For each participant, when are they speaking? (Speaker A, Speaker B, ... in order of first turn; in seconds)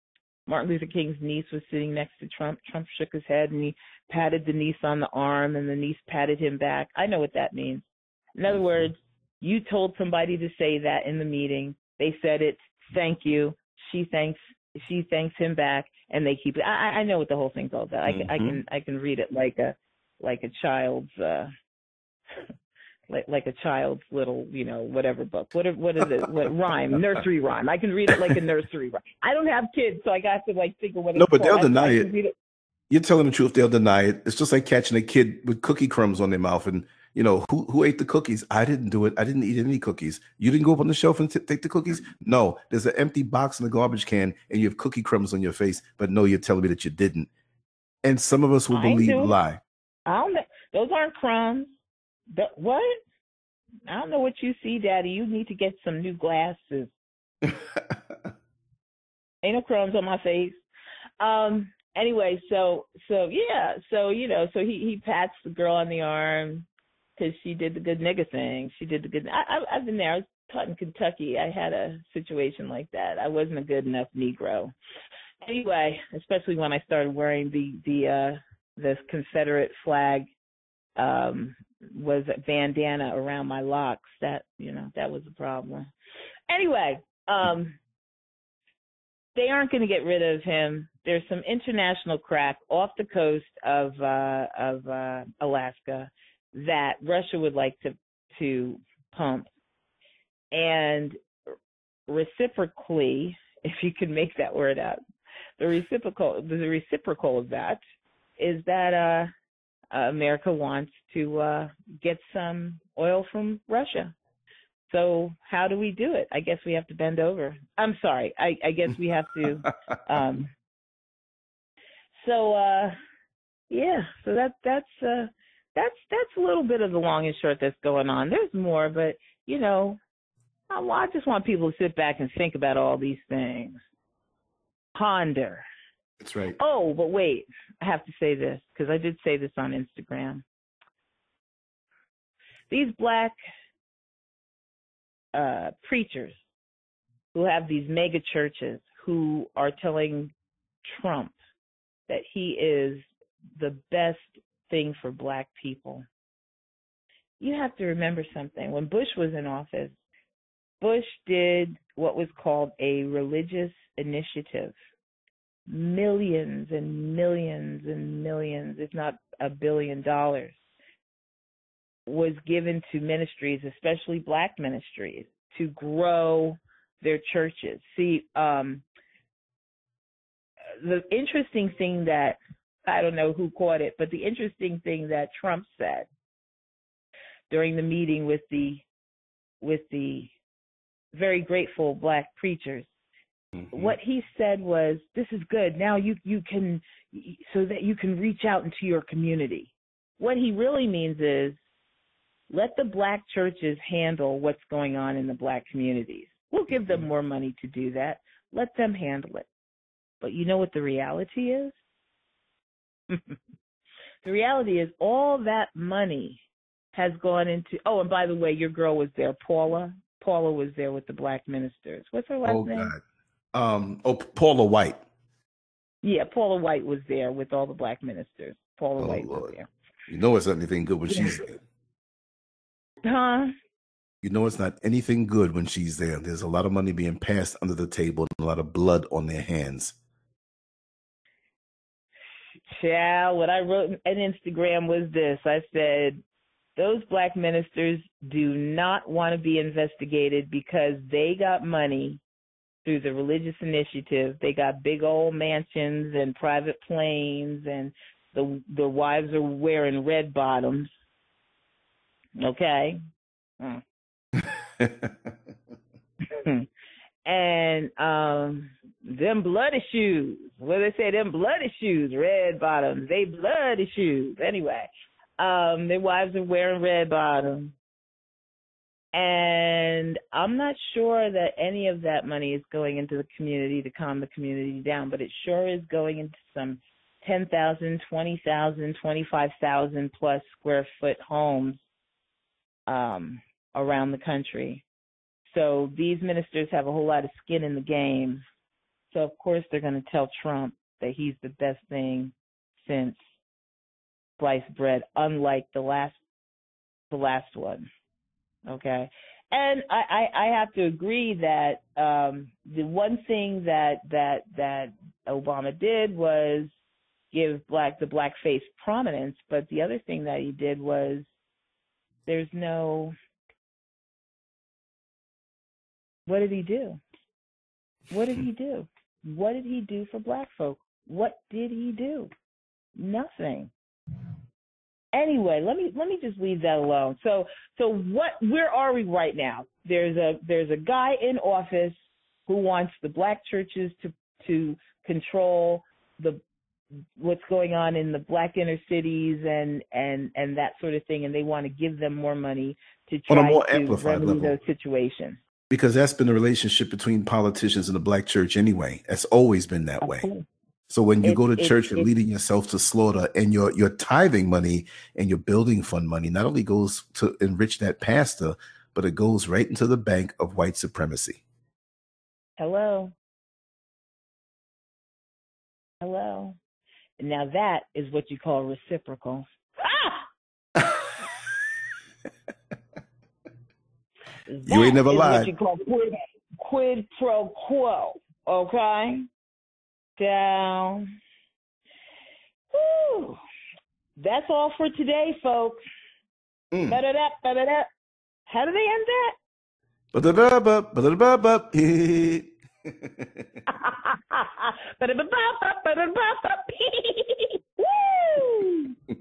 Speaker A: 0.5-21.5, 23.1-32.3, 48.7-49.4, 50.1-51.8, 52.3-53.0, 53.9-56.9, 59.4-60.6, 61.2-74.7, 75.4-80.3, 81.0-85.9, 86.5-87.8, 89.3-99.5, 100.5-101.2, 102.1-105.0, 105.6-107.8, 108.4-109.3, 109.9-114.2, 114.9-120.5, 122.2-123.0, 123.7-130.0, 130.7-133.8, 134.9-135.6, 136.6-140.4, 142.7-143.3, 145.3-146.4, 147.3-150.3, 150.8-151.4, 152.1-156.1, 157.4-160.0, 160.8-164.8, 165.7-170.6, 172.1-178.8, 180.8-186.1, 187.5-188.8, 189.6-190.3, 191.1-192.9, 193.7-201.6, 202.5-209.5, 210.2-211.8, 214.2-216.4, 216.9-222.9, 226.0-229.7, 231.1-231.4, 233.0-233.5, 242.7-246.2, 246.8-252.2, 252.8-260.9, 262.4-263.0, 266.3-266.7, 267.2-277.8, 279.1-291.8, 292.9-294.8, 295.5-298.4, 299.1-303.2, 304.4-306.2, 307.1-307.9, 308.7-316.7, 317.3-321.3, 322.3-323.1, 326.3-327.0, 328.1-332.3, 333.0-333.7, 335.1-342.0, 342.5-346.4, 347.2-355.4, 360.0-360.4, 361.2-362.1, 372.6-373.1, 376.0-376.6, 377.2-380.3, 384.5-389.3, 390.2-391.0, 392.7-393.4, 394.2-395.8, 396.9-397.9, 398.5-399.4, 403.7-408.9
Speaker B: 8.5-8.8, 18.1-18.6, 31.1-32.1, 32.9-47.3, 48.0-49.6, 57.4-58.2, 136.2-136.6, 193.6-193.9, 222.4-223.0, 223.5-225.0, 229.0-229.5, 230.1-231.6, 234.2-240.0, 264.4-265.3, 353.3-354.6, 355.7-360.3, 360.9-371.4, 380.8-381.3, 384.7-385.5, 396.7-397.0, 400.1-403.5